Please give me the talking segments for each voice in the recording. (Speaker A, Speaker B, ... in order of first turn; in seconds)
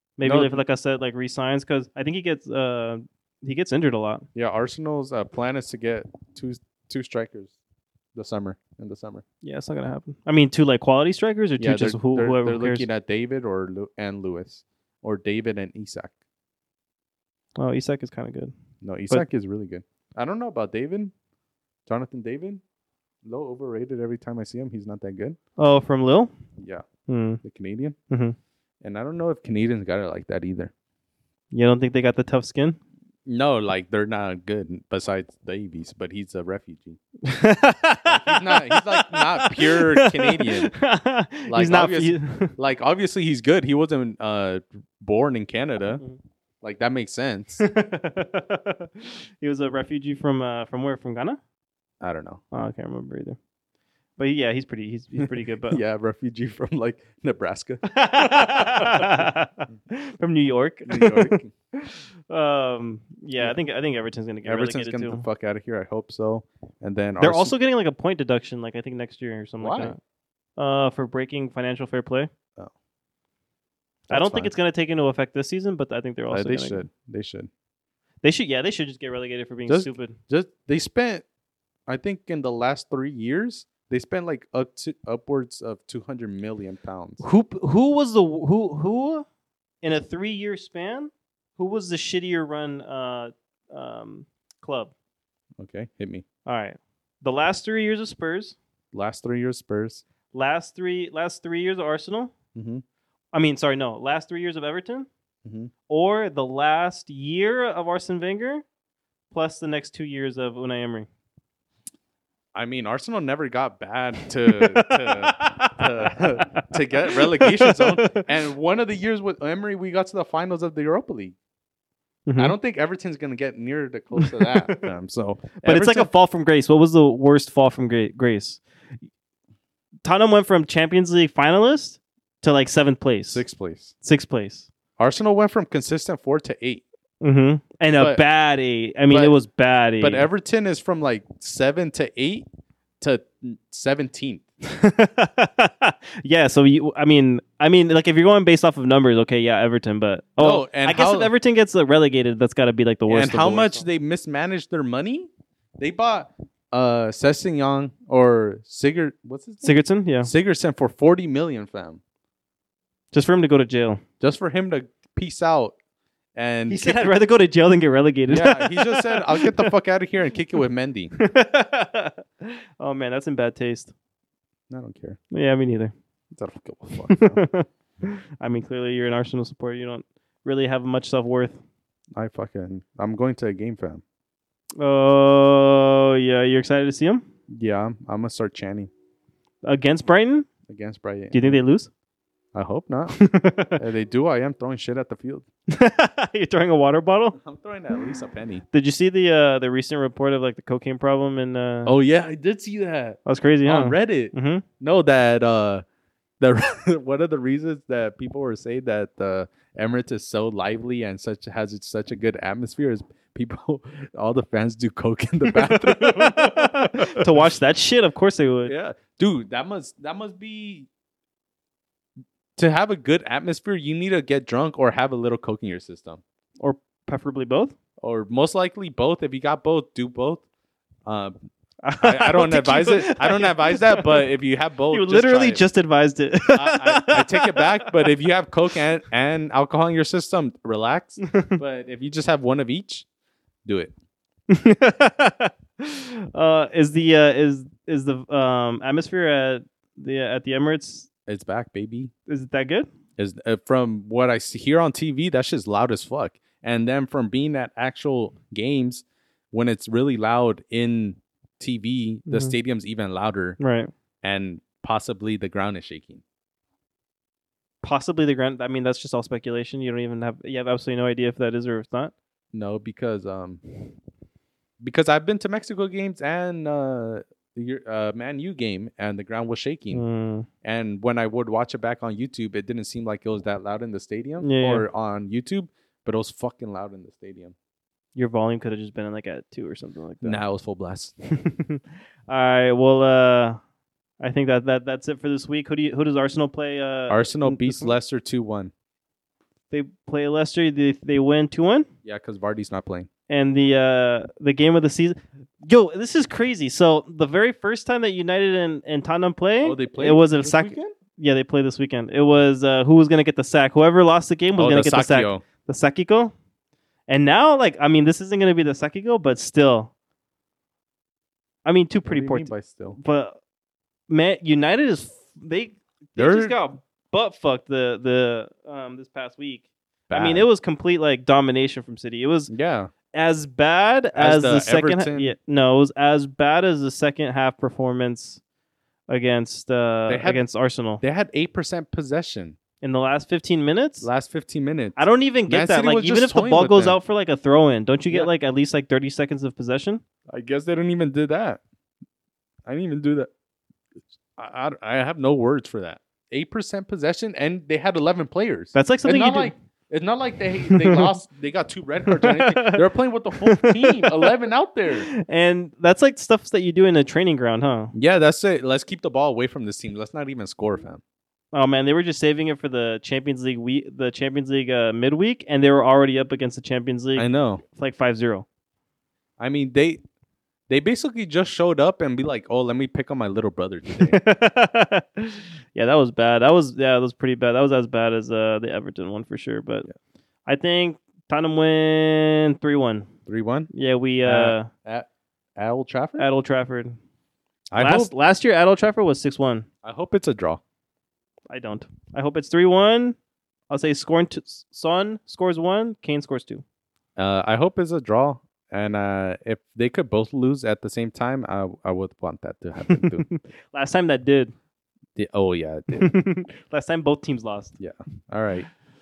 Speaker A: 0.2-4.2, 9.4-12.9, 17.6-18.5, 25.6-26.3, 27.1-27.4, 28.1-28.4, 31.5-32.8, 37.2-42.5, 47.6-51.4, 52.5-53.4, 54.2-55.8, 57.8-65.2, 67.2-70.0, 70.6-72.3, 74.1-76.9, 78.2-80.2, 87.2-89.2, 89.8-94.9, 96.5-98.6, 100.3-102.3, 103.3-105.1, 105.9-108.6, 109.3-111.1, 114.5-118.3, 122.3-122.5, 124.2-124.9, 125.6-128.6, 130.1-133.4, 134.0-134.7, 137.2-140.3, 144.6-153.8, 159.6-160.3, 163.1-164.0, 166.7-169.7, 171.2-173.9, 175.3-175.9, 177.1-181.6, 184.8-187.2, 189.6-190.5, 191.3-191.9, 193.1-193.8, 195.7-197.4, 198.7-201.9, 203.3-204.7, 215.5-218.7, 226.6-227.7, 231.8-234.3, 234.9-238.1, 241.3-241.6, 244.5-251.1, 252.3-252.9, 262.3-262.5, 263.6-263.9, 267.8-272.1, 279.9-280.5, 284.4-284.9, 288.2-290.4, 291.3-293.6, 294.2-297.9, 299.7-301.9, 303.3-316.3, 317.1-319.9, 321.6-323.4, 324.1-332.5, 333.1-338.4, 339.1-341.0, 342.8-344.1, 345.0-350.0, 358.8-359.5, 360.7-361.1, 362.1-362.9, 363.4-364.3, 364.9-367.9, 371.5-378.5, 383.9-389.9, 390.5-393.1, 393.7-394.7, 396.2-397.0, 397.8-399.7, 401.5-403.2, 403.7-406.6, 412.9-414.5, 415.9-417.8
Speaker B: 0.2-0.6, 4.3-7.5, 8.2-9.2, 11.6-16.1, 18.8-21.1, 21.9-22.6, 23.2-25.4, 26.6-26.8, 27.4-28.0, 28.8-30.7, 33.3-37.0, 38.0-40.8, 41.5-46.0, 46.6-47.6, 52.0-52.4, 55.2-59.3, 60.9-61.5, 64.5-67.5, 69.6-70.0, 74.1-74.5, 76.3-77.5, 79.7-81.2, 81.9-87.2, 95.6-96.2, 98.9-100.0, 102.5-102.8, 105.5-105.7, 112.5-121.3, 122.4-126.1, 133.3-133.9, 135.0-136.8, 137.9-138.2, 139.1-139.3, 140.0-142.5, 143.0-144.4, 150.4-151.3, 153.1-162.0, 164.2-165.8, 166.4-167.1, 168.3-171.2, 174.7-175.2, 176.3-177.4, 182.2-184.0, 187.5-188.9, 190.7-191.6, 192.5-193.2, 193.8-195.5, 197.4-198.6, 201.9-205.8, 206.4-217.5, 218.7-220.9, 222.6-226.2, 228.0-230.4, 231.1-231.3, 232.0-235.6, 236.5-243.1, 243.7-243.9, 251.3-252.1, 253.2-263.6, 264.2-266.2, 272.5-273.6, 274.8-280.0, 280.6-287.6, 290.2-291.1, 297.1-298.7, 302.1-303.1, 309.6-310.9, 314.6-315.4, 322.1-323.0, 326.2-326.6, 330.1-330.5, 332.5-332.9, 334.1-335.4, 340.1-340.4, 341.0-342.6, 344.0-347.0, 350.3-351.6, 352.7-353.3, 354.4-365.1, 367.9-371.0, 377.2-377.6, 379.4-380.0, 380.7-384.2, 393.3-393.7, 394.2-396.3, 397.7-398.1, 399.8-400.6, 407.2-413.3, 415.2-416.1, 417.8-418.7